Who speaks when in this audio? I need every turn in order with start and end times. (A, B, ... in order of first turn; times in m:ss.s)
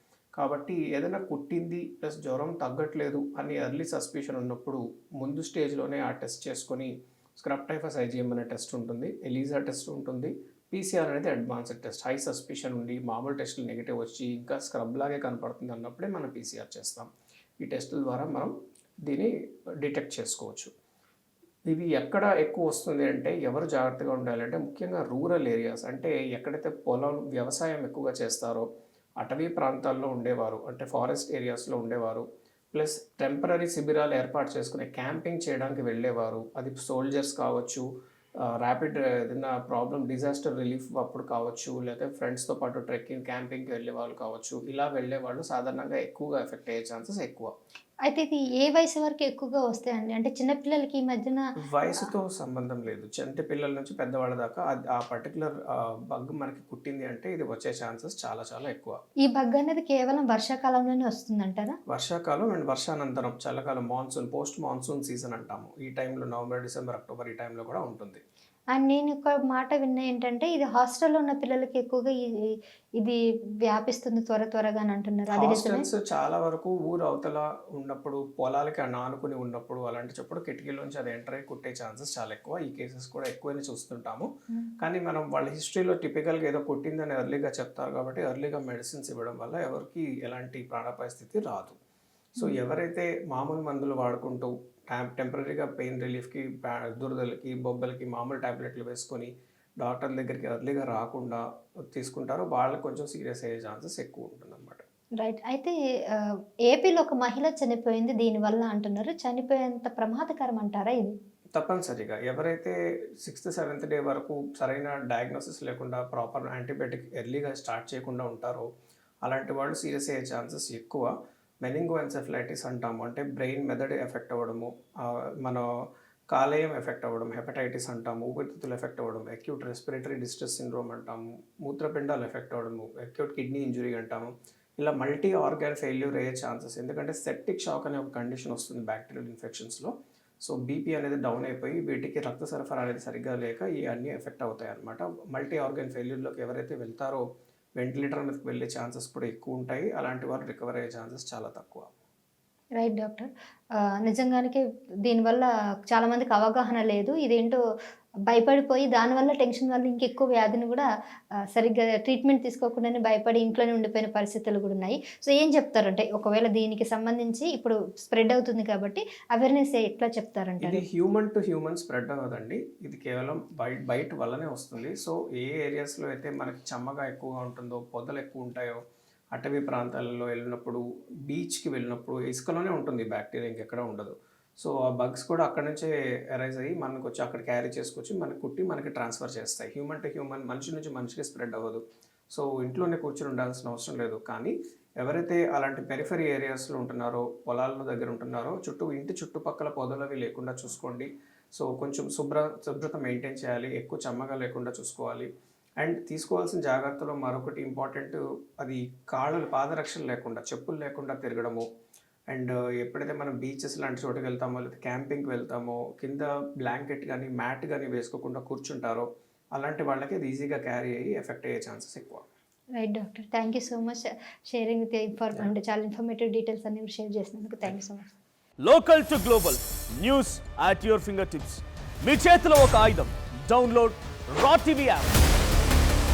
0:00.4-0:17.1 A
0:17.6-0:18.5 A
0:19.8-0:20.7 A
0:21.7-0:28.7 A
0:29.2-0:37.9 A
0:38.4-0:47.5 A
0:48.1-0:51.5 B
0:51.6-0:59.0 A
0:59.2-1:01.8 B
1:01.9-1:08.2 A
1:08.7-1:15.8 B
1:15.3-1:31.8 A
1:32.4-1:41.4 A
1:42.0-1:44.8 A
1:45.2-1:51.2 B
1:51.6-1:58.7 A
1:59.2-2:01.1 A
2:01.6-2:05.7 A
2:06.3-2:27.2 A
2:27.8-2:31.9 A
2:32.8-2:37.6 B
2:38.3-2:40.9 B
2:41.5-2:50.8 B
2:50.6-2:58.8 A
2:59.3-3:11.8 A
3:12.3-3:25.3 A
3:25.8-3:31.6 A
3:32.3-3:42.3 A
3:42.8-3:48.1 B
3:48.6-3:55.1 C